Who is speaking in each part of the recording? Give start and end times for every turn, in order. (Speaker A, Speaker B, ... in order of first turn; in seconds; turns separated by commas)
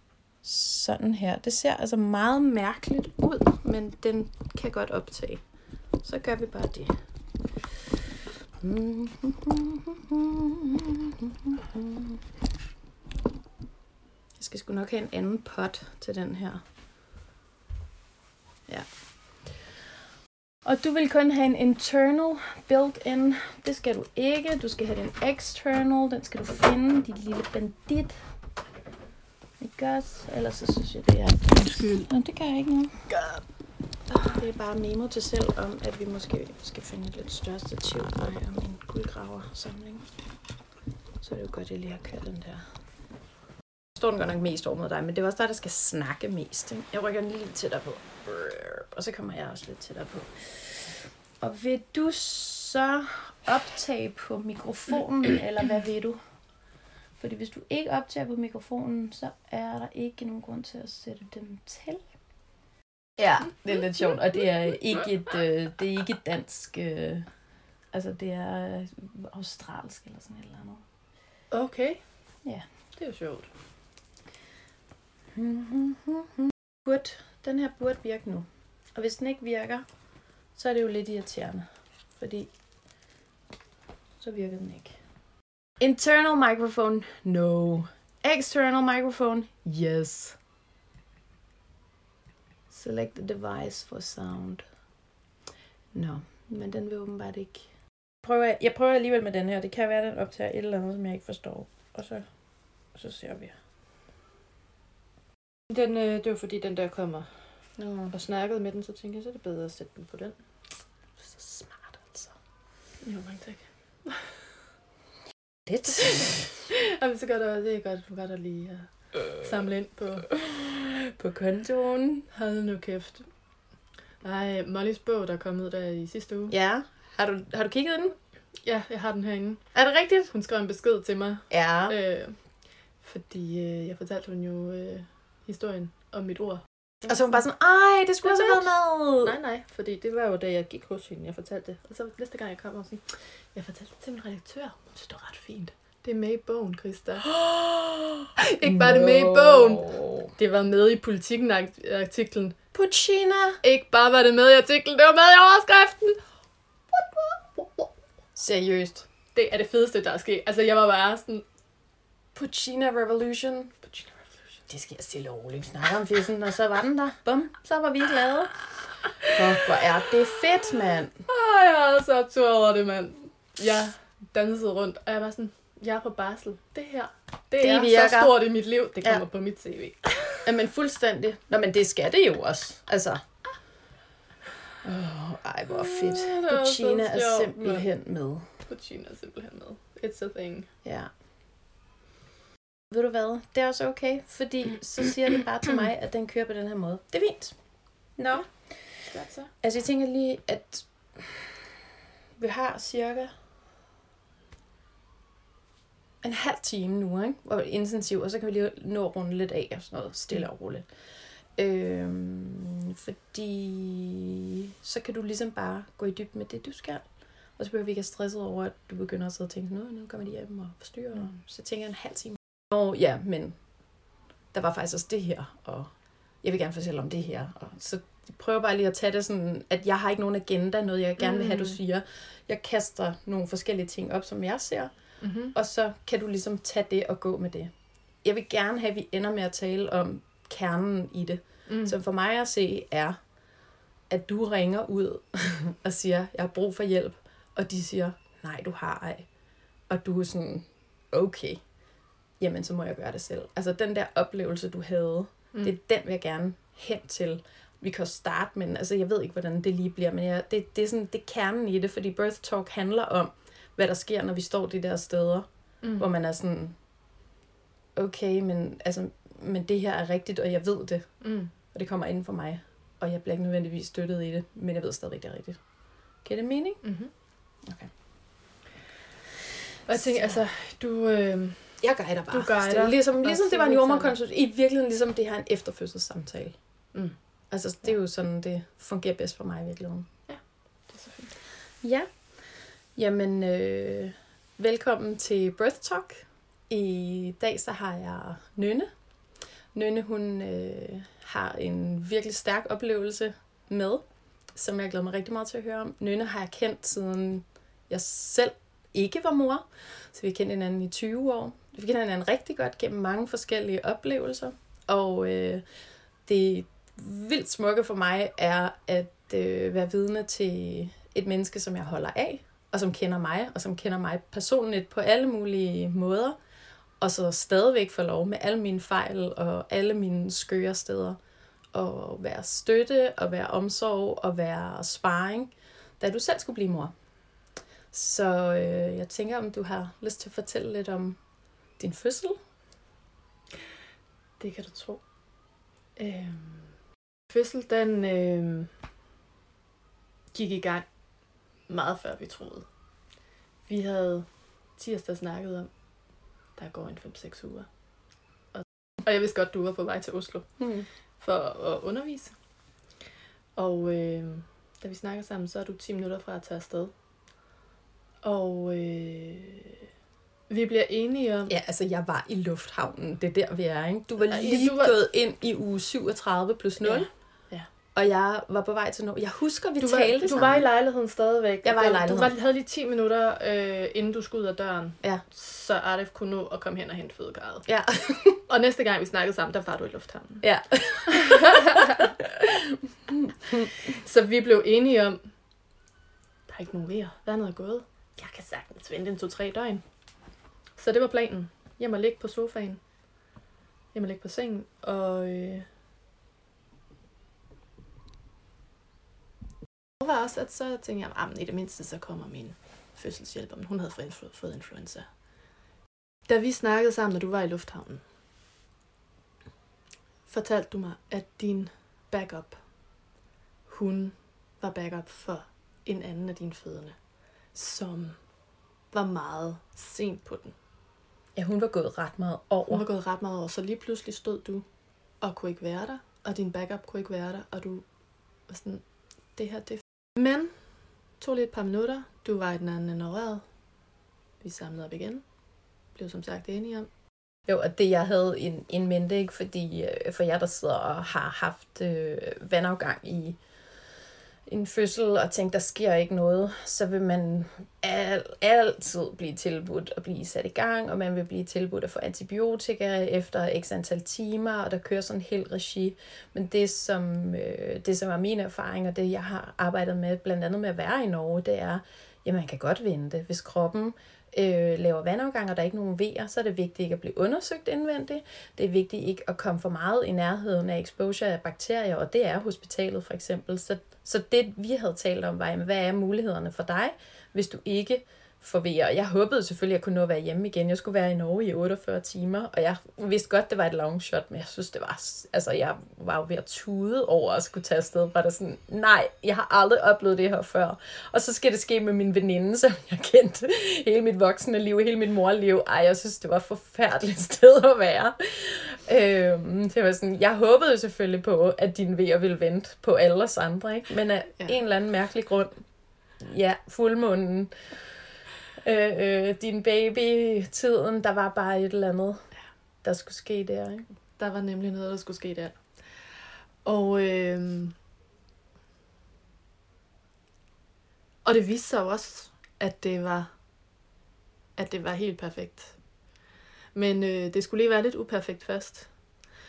Speaker A: 0.4-5.4, Speaker A: 6.0-7.0, Speaker A: 8.6-12.2, Speaker A: 14.4-16.6, Speaker A: 18.7-19.6, Speaker A: 20.6-28.2, Speaker A: 29.6-33.1, Speaker B: 31.6-32.1, Speaker B: 33.1-33.4, Speaker A: 34.1-40.1, Speaker A: 41.2-42.6, Speaker A: 44.0-56.2, Speaker A: 57.2-62.0, Speaker A: 63.2-67.3, Speaker A: 67.9-70.8, Speaker B: 71.5-72.0, Speaker B: 73.0-73.5, Speaker A: 75.3-79.9, Speaker A: 80.5-82.5, Speaker A: 84.2-85.0, Speaker A: 85.8-90.4, Speaker A: 92.7-94.7, Speaker A: 95.9-97.7, Speaker A: 98.2-102.3, Speaker A: 102.9-103.5, Speaker B: 105.7-107.3, Speaker A: 107.8-108.1, Speaker B: 108.1-110.4, Speaker A: 111.2-112.3, Speaker B: 113.0-114.6, Speaker A: 115.7-116.6, Speaker B: 115.9-120.3, Speaker A: 120.3-122.3, Speaker B: 122.3-123.3, Speaker B: 124.2-126.5, Speaker A: 126.5-128.2, Speaker B: 128.6-129.7, Speaker A: 129.7-130.3, Speaker B: 130.3-132.4, Speaker A: 131.5-132.0, Speaker B: 133.0-137.4, Speaker A: 137.1-139.4, Speaker B: 138.2-147.3, Speaker A: 147.2-150.3, Speaker B: 148.4-152.6, Speaker A: 152.7-153.6, Speaker B: 153.6-156.2, Speaker B: 156.9-157.9, Speaker A: 158.4-159.1, Speaker B: 159.3-161.4, Speaker A: 162.3-163.9, Speaker A: 164.7-168.7, Speaker A: 169.2-171.2, Speaker B: 171.3-180.4, Speaker A: 177.6-178.4, Speaker A: 180.4-183.2, Speaker A: 184.8-188.5, Speaker B: 185.7-187.9, Speaker B: 188.7-190.7, Speaker A: 190.8-191.1, Speaker A: 192.9-197.6, Speaker A: 198.2-199.0, Speaker B: 199.1-199.5, Speaker A: 199.6-201.7, Speaker A: 202.4-203.3, Speaker A: 206.2-210.9, Speaker A: 211.5-223.6, Speaker A: 224.5-235.0, Speaker B: 231.2-231.8, Speaker B: 235.2-235.6, Speaker A: 235.5-243.2, Speaker B: 241.7-241.9, Speaker A: 244.1-249.3, Speaker A: 249.9-251.7, Speaker A: 252.4-266.8, Speaker B: 265.8-266.1, Speaker A: 268.0-275.6, Speaker B: 271.2-271.5, Speaker A: 276.2-276.8, Speaker B: 276.8-277.1, Speaker A: 277.6-277.9, Speaker B: 279.9-284.2, Speaker A: 279.9-280.4, Speaker A: 281.8-286.6, Speaker A: 287.5-290.1, Speaker B: 290.3-291.4, Speaker A: 291.8-298.9, Speaker A: 299.7-315.6, Speaker A: 316.3-326.4, Speaker A: 327.0-331.2, Speaker A: 331.7-336.9, Speaker A: 337.9-341.2, Speaker A: 341.8-342.4, Speaker B: 344.4-345.0, Speaker B: 346.0-346.8, Speaker B: 347.3-348.7, Speaker B: 350.3-350.9, Speaker B: 351.7-352.7, Speaker B: 353.7-355.7, Speaker B: 356.6-357.7, Speaker B: 358.5-360.6, Speaker A: 360.6-360.9, Speaker B: 361.2-362.4, Speaker B: 363.6-366.9, Speaker B: 368.2-369.9, Speaker B: 370.5-371.5, Speaker A: 371.5-377.1, Speaker B: 374.2-375.0, Speaker B: 376.8-377.7, Speaker A: 377.9-380.7, Speaker B: 379.8-387.7, Speaker A: 381.6-382.3, Speaker A: 387.7-388.4, Speaker B: 388.3-392.1, Speaker A: 390.4-393.7, Speaker B: 393.7-395.2, Speaker B: 396.5-399.9, Speaker B: 400.8-402.8, Speaker B: 403.9-405.7, Speaker B: 410.0-415.1, Speaker B: 416.3-418.0, Speaker B: 420.3-422.6, Speaker B: 423.7-427.0, Speaker B: 427.5-428.2, Speaker B: 428.9-430.6, Speaker A: 431.4-432.9, Speaker B: 432.7-434.7, Speaker B: 435.2-437.9, Speaker B: 438.5-438.8, Speaker B: 439.4-440.6, Speaker B: 441.2-443.4, Speaker B: 444.4-445.2, Speaker B: 445.9-446.9, Speaker A: 447.5-453.4, Speaker A: 454.5-515.6, Speaker A: 516.2-517.8, Speaker A: 518.6-522.3, Speaker A: 522.8-523.9, Speaker B: 524.2-527.8, Speaker B: 531.2-533.3, Speaker B: 534.6-535.8, Speaker B: 536.7-538.9